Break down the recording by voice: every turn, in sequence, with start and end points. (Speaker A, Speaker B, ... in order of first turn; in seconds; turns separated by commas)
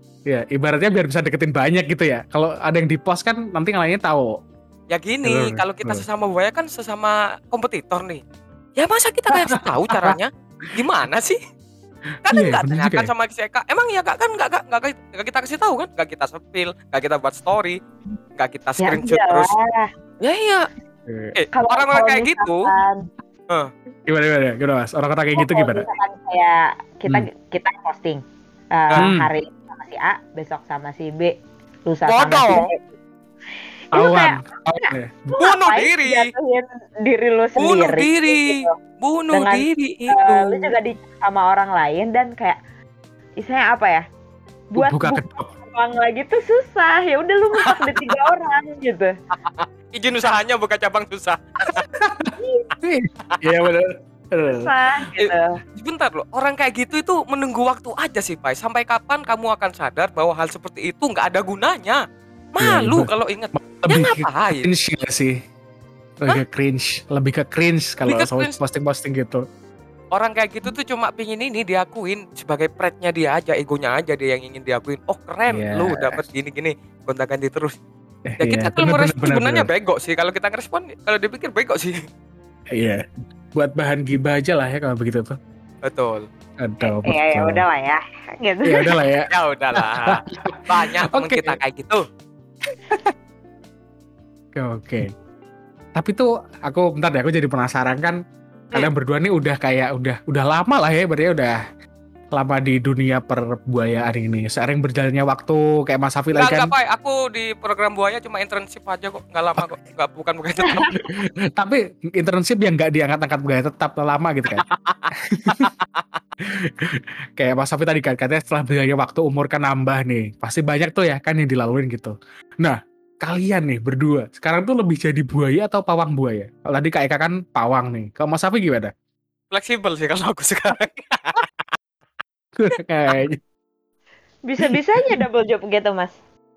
Speaker A: 0.2-4.4, Speaker B: 4.9-8.2, Speaker A: 5.2-6.0, Speaker B: 8.8-11.4, Speaker A: 9.3-10.2, Speaker A: 12.2-13.1, Speaker B: 12.2-17.8, Speaker B: 18.4-19.5, Speaker C: 18.8-19.9, Speaker B: 20.2-20.7, Speaker A: 21.1-21.3, Speaker B: 21.3-22.7, Speaker C: 21.5-23.0, Speaker A: 24.1-25.9, Speaker C: 25.3-28.2, Speaker C: 28.7-32.8, Speaker A: 29.0-29.3, Speaker B: 32.0-32.7, Speaker C: 33.9-38.7, Speaker A: 33.9-35.3, Speaker B: 35.4-36.3, Speaker B: 37.6-40.7, Speaker C: 39.3-42.6, Speaker C: 43.4-44.0, Speaker C: 44.7-49.1, Speaker A: 44.8-45.5, Speaker B: 47.6-48.0, Speaker B: 49.5-51.9, Speaker A: 51.8-54.7, Speaker C: 52.4-52.7, Speaker C: 54.5-55.6, Speaker B: 55.2-62.0, Speaker B: 62.5-64.7, Speaker A: 62.6-65.4, Speaker A: 66.2-69.4, Speaker B: 68.1-68.6, Speaker B: 70.1-77.8, Speaker A: 75.5-76.2, Speaker A: 78.3-79.7, Speaker B: 78.4-82.0, Speaker A: 82.7-85.4, Speaker B: 85.8-86.3, Speaker A: 86.6-87.6, Speaker C: 86.8-89.0, Speaker A: 88.6-91.6, Speaker B: 89.3-92.0, Speaker A: 94.5-95.1, Speaker A: 95.9-98.2, Speaker A: 98.7-101.6, Speaker A: 102.3-106.7, Speaker B: 106.3-111.0, Speaker A: 111.0-114.6, Speaker B: 114.5-116.0, Speaker A: 115.2-115.7, Speaker A: 116.4-128.9, Speaker B: 129.5-131.4, Speaker A: 132.6-133.4, Speaker C: 134.4-136.2, Speaker A: 134.6-135.2